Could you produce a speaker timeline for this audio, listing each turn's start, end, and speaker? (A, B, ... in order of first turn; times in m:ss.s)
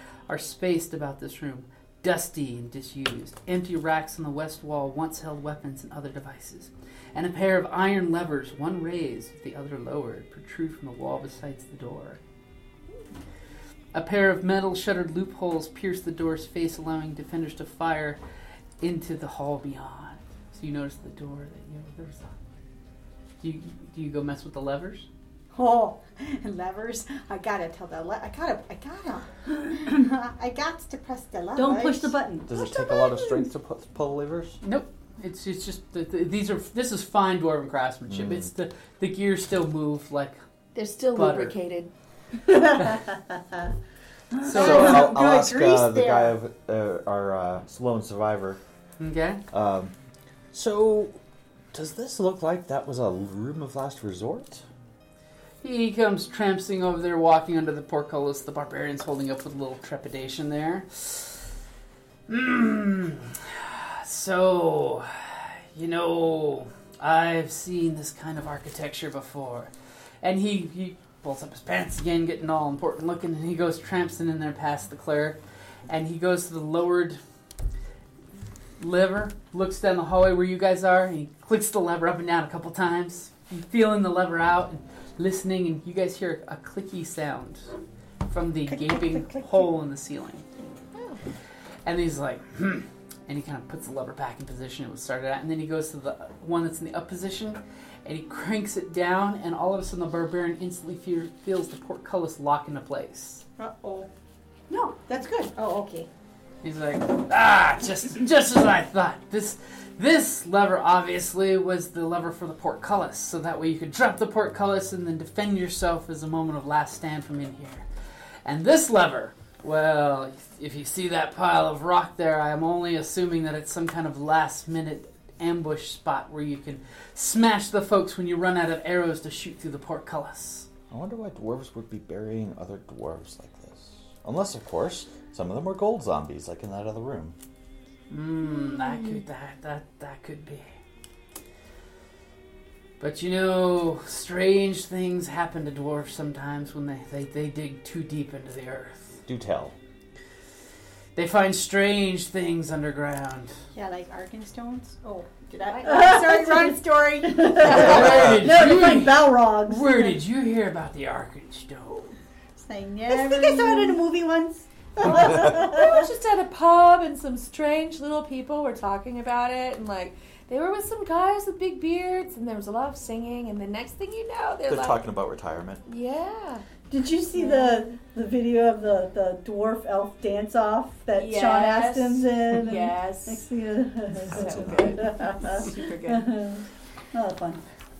0:00.3-0:12.2 A
0:13.9-0:18.2 A
0:18.8-0:22.3 A
0:23.4-0:25.1 A
0:25.5-0:32.2 B
0:31.6-0:33.4 C
0:32.5-0:34.6 D
0:34.6-0:40.4 A
0:38.1-0:38.5 D
0:40.7-0:41.9 E
0:41.1-0:41.5 A
0:42.4-0:43.6 C
0:44.3-0:45.2 C
0:44.4-0:45.0 A
0:44.5-0:48.6 D
0:44.5-0:46.3 B
0:49.0-0:49.4 A
0:49.5-0:49.9 D
0:50.5-0:51.2 D
0:51.7-0:54.6 D
0:55.6-1:01.4 A
1:02.3-1:09.7 A
1:10.2-1:17.2 A
1:18.8-1:27.7 A
1:28.3-1:30.4 A
1:28.7-1:29.7 C
1:30.9-1:31.2 E
1:31.8-1:43.4 A
1:43.6-1:44.1 B
1:44.7-1:45.5 C
1:45.6-1:46.1 B
1:46.6-1:57.8 A
1:58.4-2:10.7 A
2:10.9-2:17.3 D
2:18.1-2:20.7 A
2:18.6-2:19.2 E
2:23.0-2:29.2 A
2:29.3-2:29.7 D
2:31.2-2:33.6 A
2:33.7-2:37.9 B
2:35.8-2:40.2 C
2:37.6-2:42.2 A
2:42.6-2:44.0 B
2:43.1-2:46.1 C
2:45.0-2:55.0 E
2:54.7-2:55.8 D
2:55.8-2:56.6 E
2:56.9-3:07.6 C
2:57.3-2:57.8 E
3:01.1-3:03.5 E
3:04.3-3:06.3 E
3:04.3-3:04.9 D